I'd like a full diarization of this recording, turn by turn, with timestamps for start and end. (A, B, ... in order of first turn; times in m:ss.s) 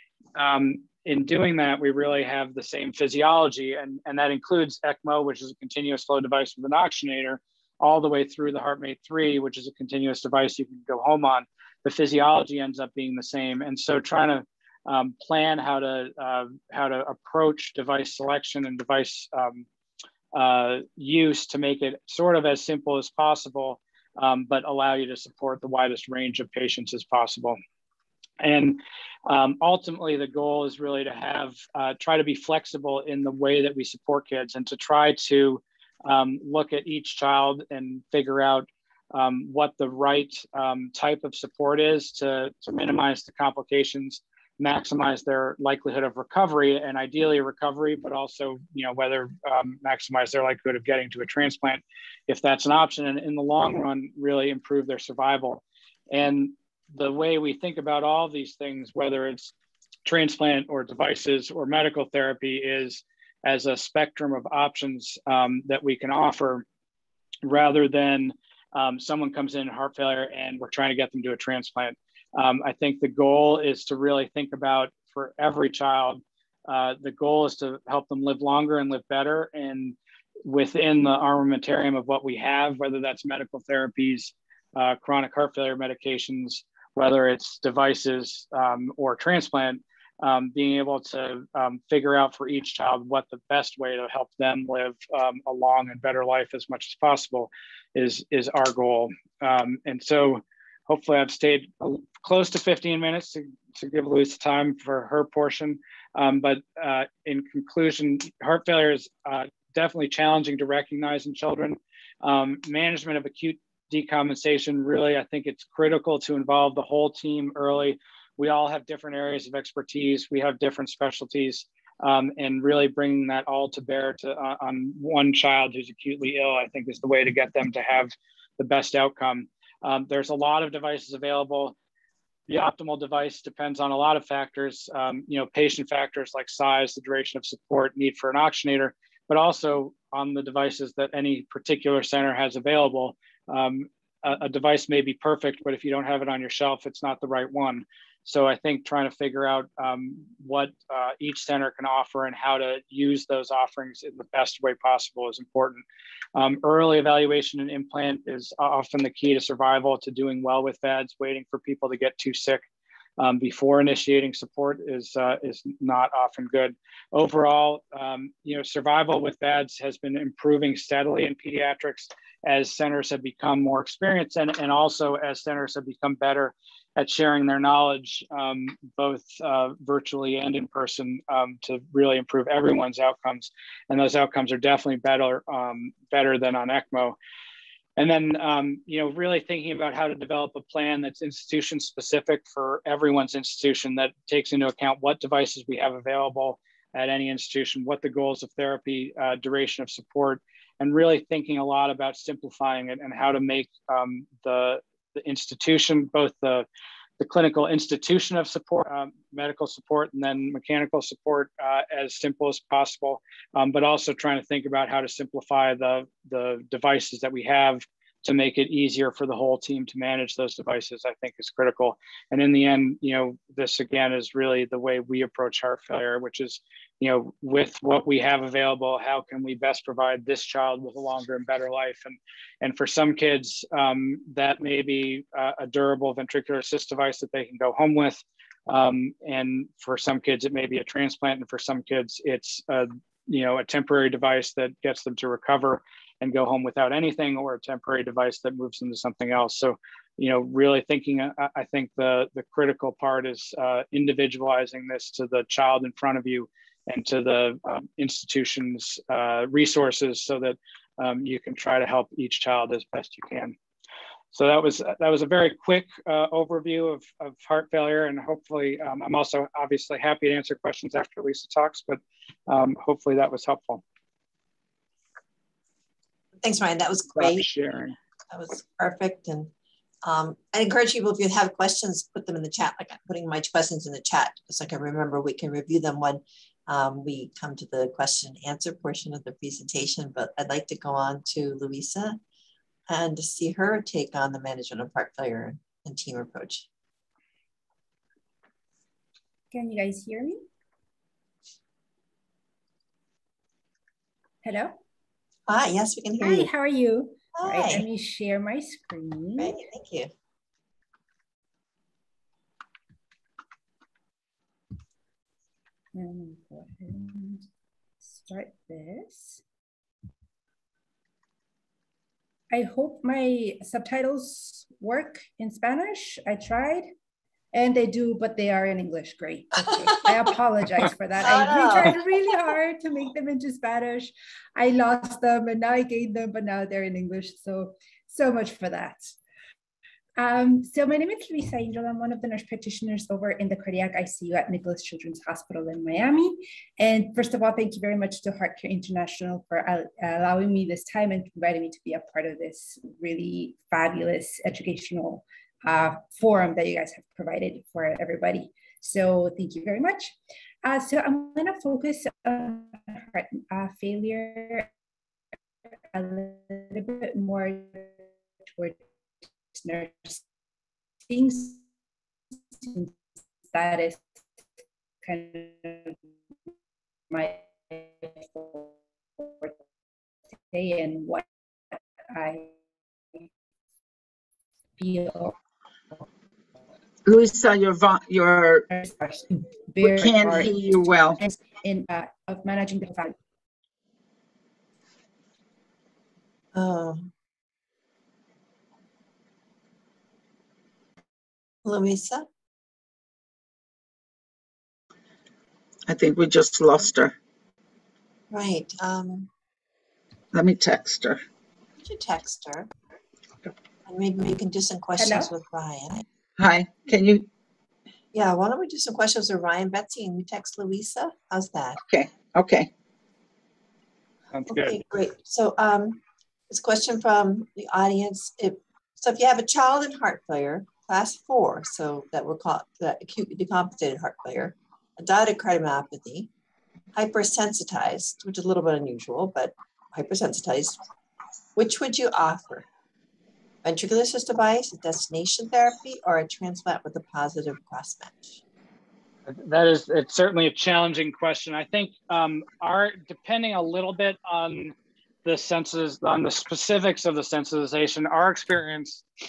0:00.3-0:19.6 A
0:20.3-0:27.6 A
0:28.4-0:59.5 A
1:00.0-1:06.6 A
1:07.4-2:11.7 A
2:12.5-2:35.8 A
2:36.4-2:42.6 A
2:43.2-3:07.2 A
3:08.0-3:26.6 A
3:27.2-4:23.6 A
4:24.3-4:33.8 A
4:36.4-4:37.5 B
4:37.1-4:38.0 A
4:38.3-4:39.5 B
4:40.0-4:52.2 B
4:52.9-4:56.7 B
4:59.5-5:00.4 C
5:04.4-5:04.8 C
5:05.5-5:06.5 B
5:06.2-5:09.6 C
5:07.3-5:07.9 B
5:09.4-5:10.1 B
5:15.9-5:17.5 C
5:18.2-5:19.4 C
5:22.5-5:26.9 C
5:27.5-5:39.1 C
5:31.2-5:32.0 B
5:40.2-6:04.7 C
6:05.9-6:07.9 C
6:09.5-6:10.2 C
6:11.1-6:11.6 C
6:12.6-6:12.9 C
6:13.5-6:14.0 C
6:15.0-6:16.0 C
6:17.1-6:19.6 C
6:20.5-6:21.2 C
6:22.1-6:22.5 C
6:24.8-6:25.4 C
6:27.0-6:28.6 D
6:28.7-6:30.6 C
6:29.8-6:31.2 D
6:31.2-6:33.1 C
6:36.5-6:37.1 B
6:41.6-6:42.3 B
6:45.9-6:47.1 D
6:48.3-6:49.3 B
6:50.3-6:51.2 D
6:51.8-6:52.7 B
6:53.8-6:56.0 B
6:55.0-6:55.3 C
6:56.4-6:57.3 D
6:58.1-7:01.8 B
7:01.9-7:02.7 D
7:04.3-7:04.8 A
7:04.5-7:16.3 B
7:16.9-7:20.8 B
7:21.6-7:22.7 B
7:23.6-7:28.4 B
7:29.3-7:39.0 A